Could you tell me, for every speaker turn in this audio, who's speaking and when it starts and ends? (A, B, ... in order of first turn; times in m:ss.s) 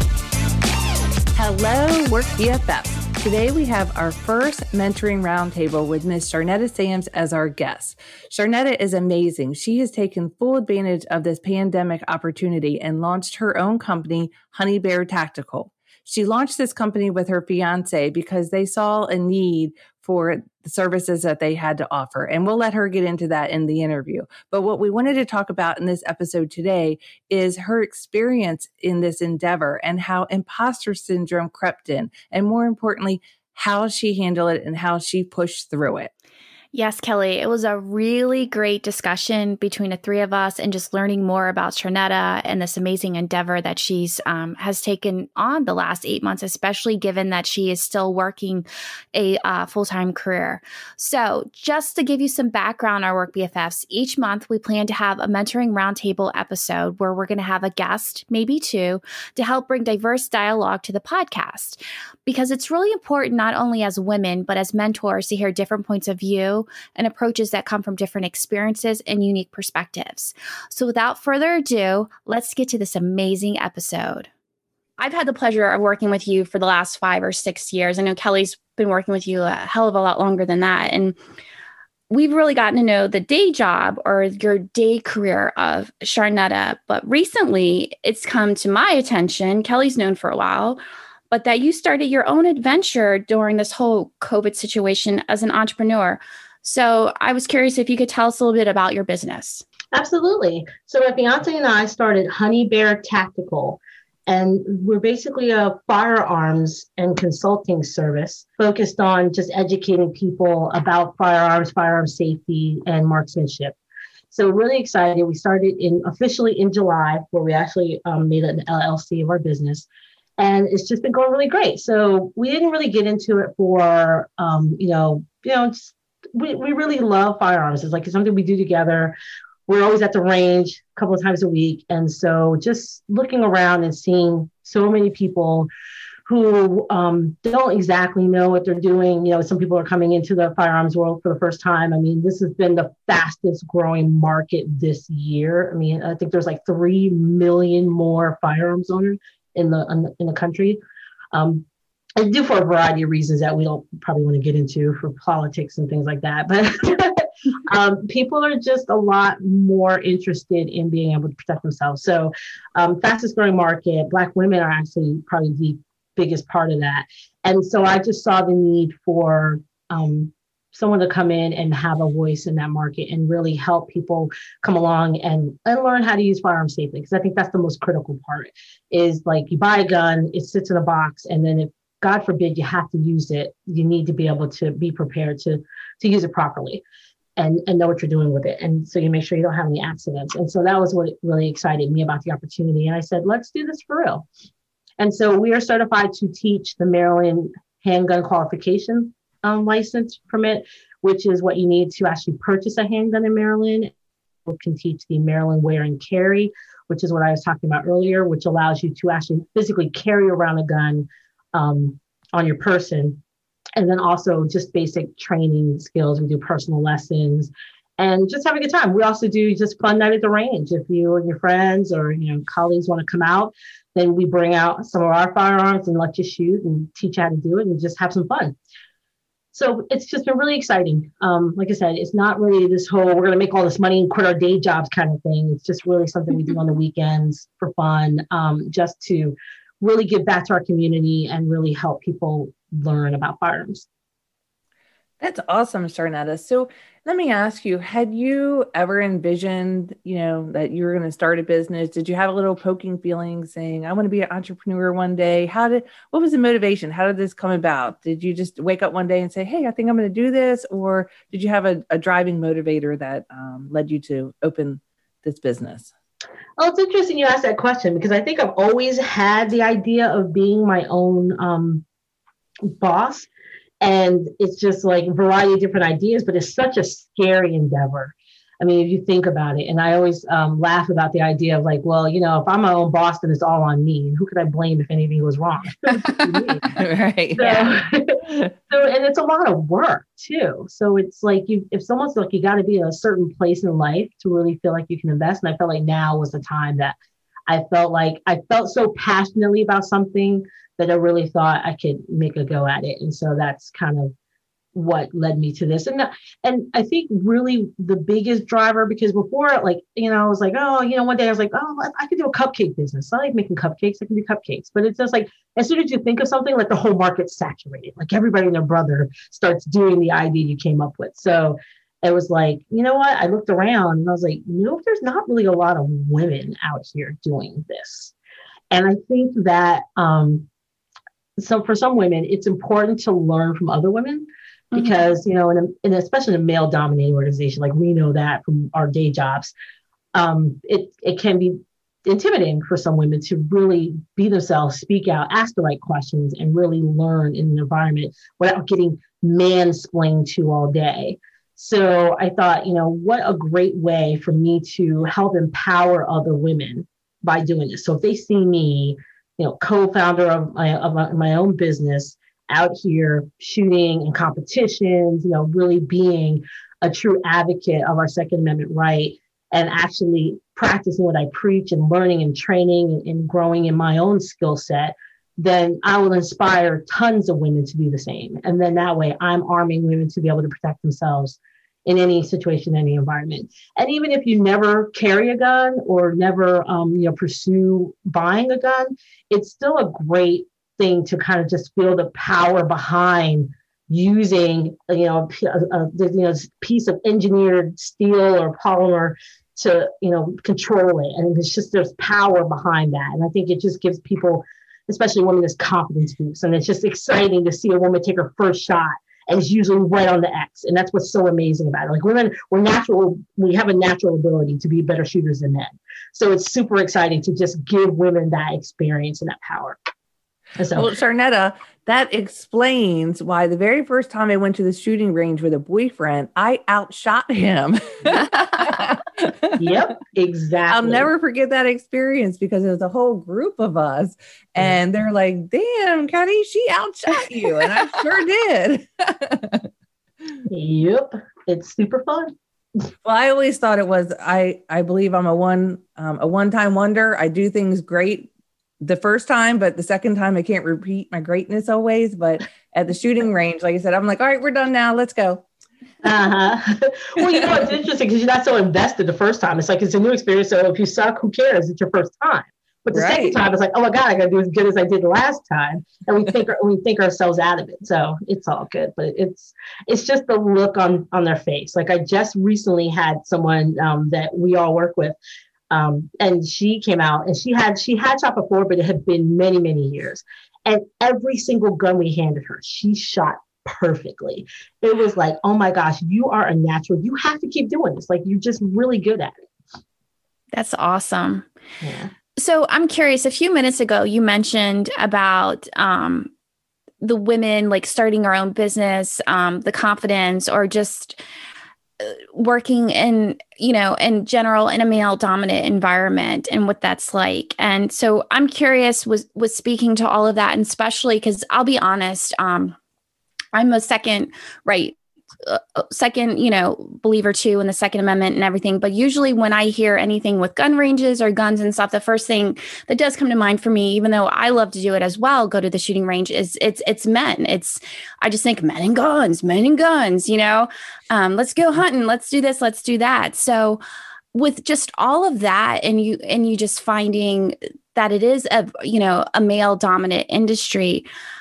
0:01.4-0:36.1 A
0:36.7-1:14.3 B
1:15.0-1:21.2 B
1:22.1-1:30.8 B
1:31.3-1:39.6 B
1:39.9-1:53.8 C
1:54.3-1:59.9 C
2:00.4-2:09.2 C
2:09.7-2:15.7 C
2:16.3-2:30.8 C
2:31.3-2:31.6 C
2:32.2-3:06.8 C
3:07.4-3:14.3 C
3:15.0-3:23.9 C
3:24.5-3:33.2 C
3:33.8-3:48.6 C
3:49.5-4:03.9 C
4:05.2-4:25.9 A
4:26.6-4:31.8 C
4:32.8-4:33.3 C
4:33.8-4:46.7 C
4:46.7-4:47.8 A
4:47.4-4:57.0 C
4:57.5-5:04.1 C
5:04.7-5:28.1 C
5:28.7-5:30.5 C
5:31.4-5:39.5 C
5:34.7-5:35.0 B
5:40.1-6:59.8 C
7:00.6-7:00.9 C
7:00.8-7:09.8 A
7:09.6-7:11.1 C
7:10.7-7:19.7 A
7:20.5-7:22.4 C
7:23.0-7:28.3 A
7:28.8-7:35.4 A
7:36.0-7:55.2 C
7:42.9-7:43.4 A
7:55.7-8:09.3 C
8:10.5-8:11.5 B
8:11.8-8:12.1 C
8:12.4-8:16.3 B
8:17.0-8:21.2 B
8:22.0-8:32.8 B
8:33.5-8:53.8 B
8:54.3-9:01.1 B